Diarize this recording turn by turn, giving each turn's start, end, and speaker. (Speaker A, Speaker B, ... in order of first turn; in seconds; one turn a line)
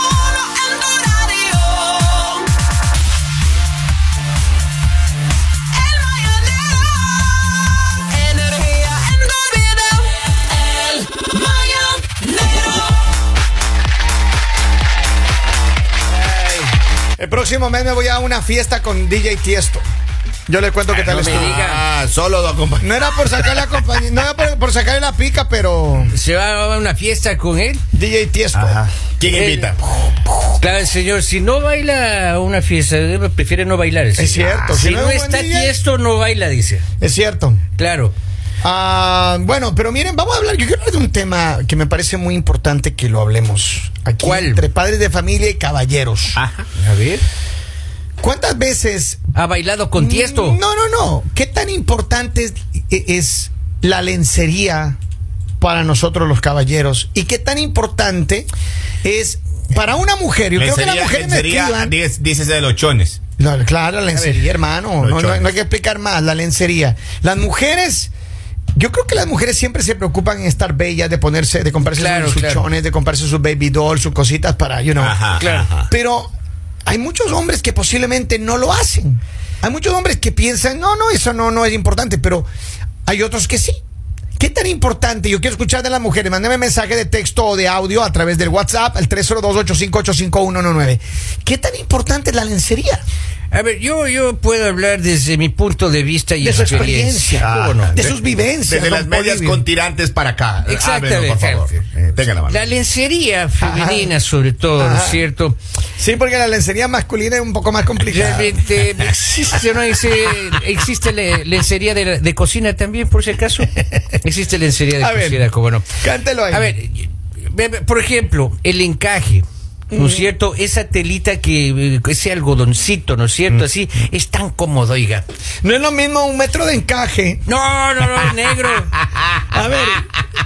Speaker A: 0.9-1.8
Speaker A: 8.3-10.0
Speaker A: 10.8-12.6
Speaker B: 17.2-19.9
Speaker B: 20.5-21.6
Speaker C: 20.9-23.7
Speaker A: 21.1-21.8
Speaker B: 22.8-26.1
Speaker A: 26.1-27.8
Speaker B: 27.9-28.8
Speaker C: 28.5-30.4
Speaker A: 29.3-29.6
Speaker A: 30.6-36.8
Speaker B: 34.2-35.8
Speaker B: 37.0-37.6
Speaker A: 37.8-38.1
Speaker B: 38.6-46.4
Speaker A: 44.2-44.6
Speaker C: 46.4-46.7
Speaker A: 46.8-47.2
Speaker B: 48.2-49.2
Speaker A: 49.3-50.6
Speaker B: 49.9-55.0
Speaker B: 55.6-58.5
Speaker B: 59.0-62.0
Speaker C: 60.5-63.2
Speaker B: 63.4-68.1
Speaker C: 65.0-65.5
Speaker B: 68.8-75.3
Speaker A: 71.9-72.7
Speaker C: 75.0-75.9
Speaker A: 75.4-75.7
Speaker B: 75.8-76.3
Speaker B: 76.8-82.5
Speaker B: 83.1-83.8
Speaker B: 84.4-93.0
Speaker A: 93.5-98.0
Speaker B: 96.4-99.7
Speaker C: 97.4-102.7
Speaker A: 100.7-101.7
Speaker A: 102.4-105.6
Speaker B: 103.6-104.2
Speaker B: 104.8-105.2
Speaker B: 106.0-108.8
Speaker A: 108.0-115.9
Speaker B: 115.0-116.7
Speaker A: 116.5-125.2
Speaker B: 119.9-120.3
Speaker B: 125.6-127.4
Speaker A: 127.5-128.9
Speaker B: 129.5-130.1